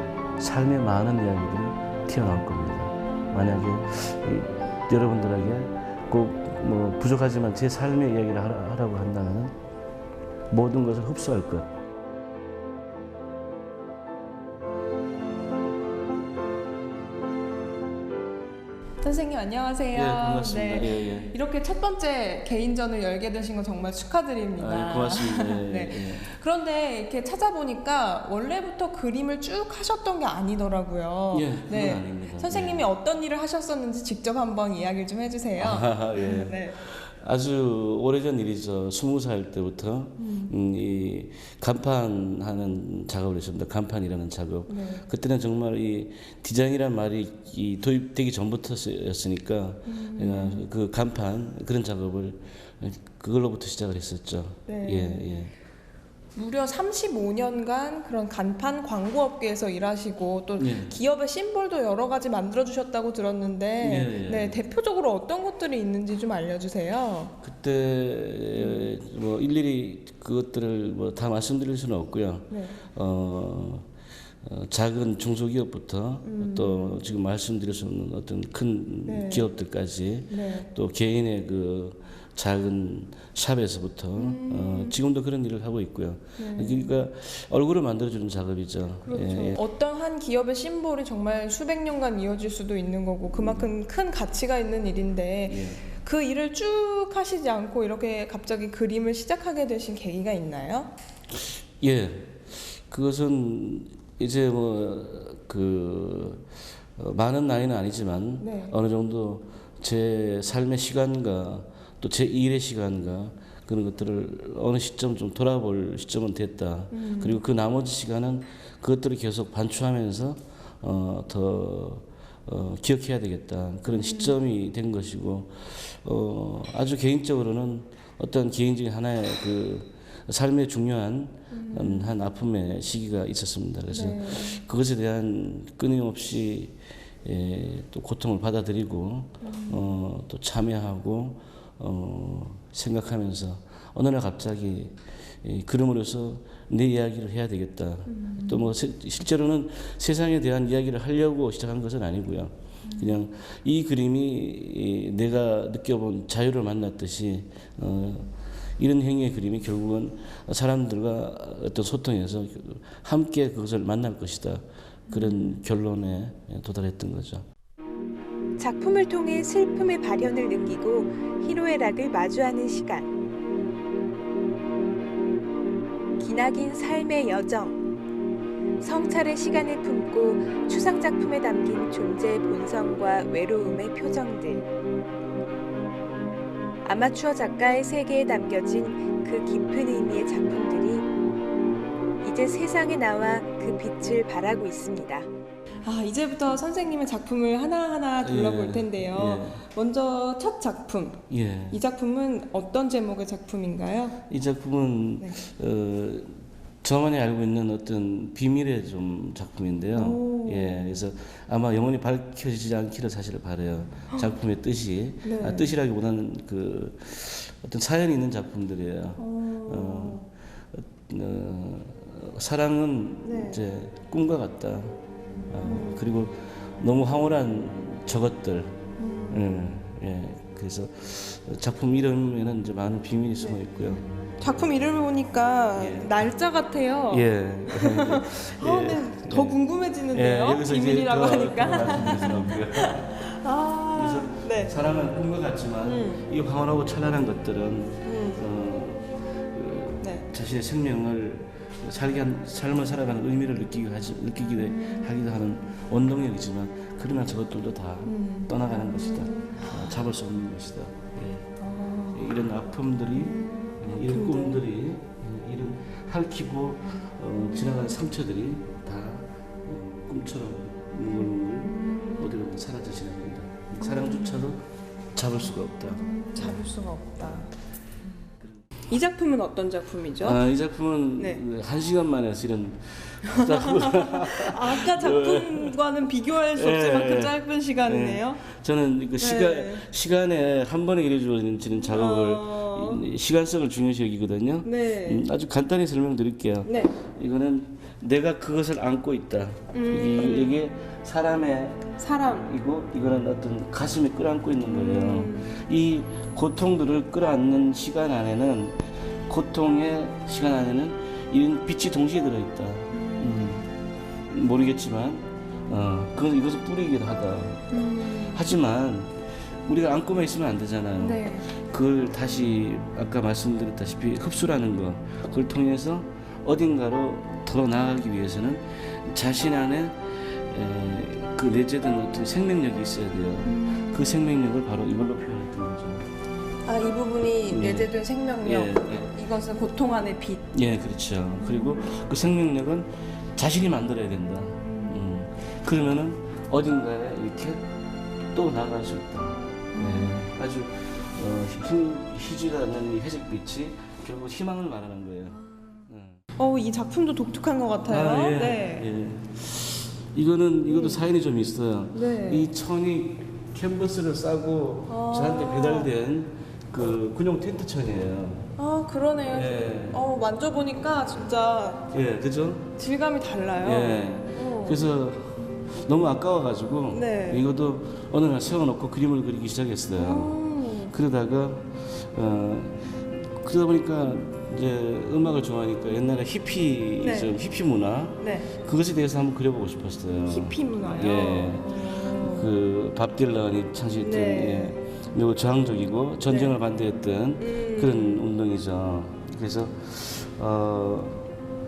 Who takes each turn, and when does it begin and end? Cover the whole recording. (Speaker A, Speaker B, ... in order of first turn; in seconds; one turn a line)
Speaker A: 0.4-9.5
Speaker A: 10.5-11.7
Speaker B: 19.0-36.8
Speaker A: 19.9-21.3
Speaker A: 24.6-26.2
Speaker A: 31.3-32.9
Speaker A: 35.6-55.5
Speaker B: 40.2-40.5
Speaker B: 44.7-45.0
Speaker B: 49.8-50.7
Speaker B: 54.7-55.4
Speaker B: 56.3-67.3
Speaker A: 60.6-61.0
Speaker A: 63.8-64.6
Speaker A: 67.4-73.9
Speaker B: 68.5-68.9
Speaker B: 72.5-72.8
Speaker A: 74.4-89.6
Speaker B: 76.2-77.0
Speaker B: 79.0-79.5
Speaker B: 80.3-80.7
Speaker B: 84.1-84.9
Speaker B: 86.4-86.9
Speaker B: 89.0-100.9
Speaker A: 93.4-93.7
Speaker A: 95.5-95.8
Speaker A: 101.3-167.4
Speaker B: 108.4-108.8
Speaker B: 116.9-117.4
Speaker B: 123.9-124.4
Speaker B: 131.5-132.1
Speaker B: 133.9-134.6
Speaker B: 139.4-139.8
Speaker B: 148.1-148.7
Speaker B: 152.8-153.2
Speaker B: 165.1-165.6
Speaker B: 168.6-173.1
Speaker B: 176.2-177.8
Speaker B: 178.8-184.7
Speaker B: 186.8-191.1
Speaker B: 192.2-195.3
Speaker B: 195.8-204.2
Speaker A: 198.2-199.6
Speaker A: 201.3-201.8
Speaker A: 204.3-225.0
Speaker B: 205.2-205.4
Speaker B: 209.9-211.0
Speaker B: 215.2-215.7
Speaker B: 219.2-220.2
Speaker B: 223.2-223.6
Speaker A: 225.5-234.0
Speaker B: 225.6-226.0
Speaker B: 229.0-229.6
Speaker B: 234.4-244.7
Speaker A: 235.8-236.3
Speaker A: 237.1-239.6
Speaker A: 240.1-243.2
Speaker A: 243.9-261.5
Speaker B: 245.8-246.3
Speaker B: 248.0-248.4
Speaker B: 250.0-250.3
Speaker B: 258.0-259.8
Speaker B: 261.6-262.3
Speaker A: 262.1-276.6
Speaker B: 263.2-264.6
Speaker B: 271.6-272.1
Speaker B: 273.8-274.5
Speaker B: 275.9-277.5
Speaker B: 278.9-280.4
Speaker A: 280.2-285.8
Speaker B: 281.1-281.4
Speaker B: 283.2-288.4
Speaker A: 286.5-313.7
Speaker B: 289.2-289.8
Speaker B: 291.8-293.0
Speaker B: 294.6-295.2
Speaker B: 296.6-297.0
Speaker B: 299.7-300.6
Speaker B: 301.9-302.5
Speaker B: 304.6-305.5
Speaker B: 312.9-313.5
Speaker A: 314.3-317.7
Speaker B: 317.7-318.6
Speaker A: 318.3-336.1
Speaker B: 321.0-321.5
Speaker B: 333.4-334.3
Speaker B: 336.6-340.5
Speaker A: 337.5-337.9
Speaker A: 338.4-339.1
Speaker A: 340.5-347.6
Speaker B: 341.4-341.9
Speaker B: 344.6-345.0
Speaker A: 348.3-356.2
Speaker B: 349.7-350.2
Speaker B: 356.4-358.9
Speaker A: 357.9-368.5
Speaker B: 360.7-361.0
Speaker B: 361.9-362.5
Speaker B: 364.9-365.9
Speaker B: 368.6-371.9
Speaker A: 369.3-370.0
Speaker A: 371.9-372.7
Speaker B: 372.8-374.8
Speaker A: 373.6-380.4
Speaker B: 376.9-377.4
Speaker B: 379.9-380.9
Speaker A: 380.9-401.3
Speaker B: 387.0-387.3
Speaker B: 388.2-388.5
Speaker B: 390.2-392.5
Speaker B: 394.0-394.8
Speaker B: 396.2-396.6
Speaker B: 397.4-398.2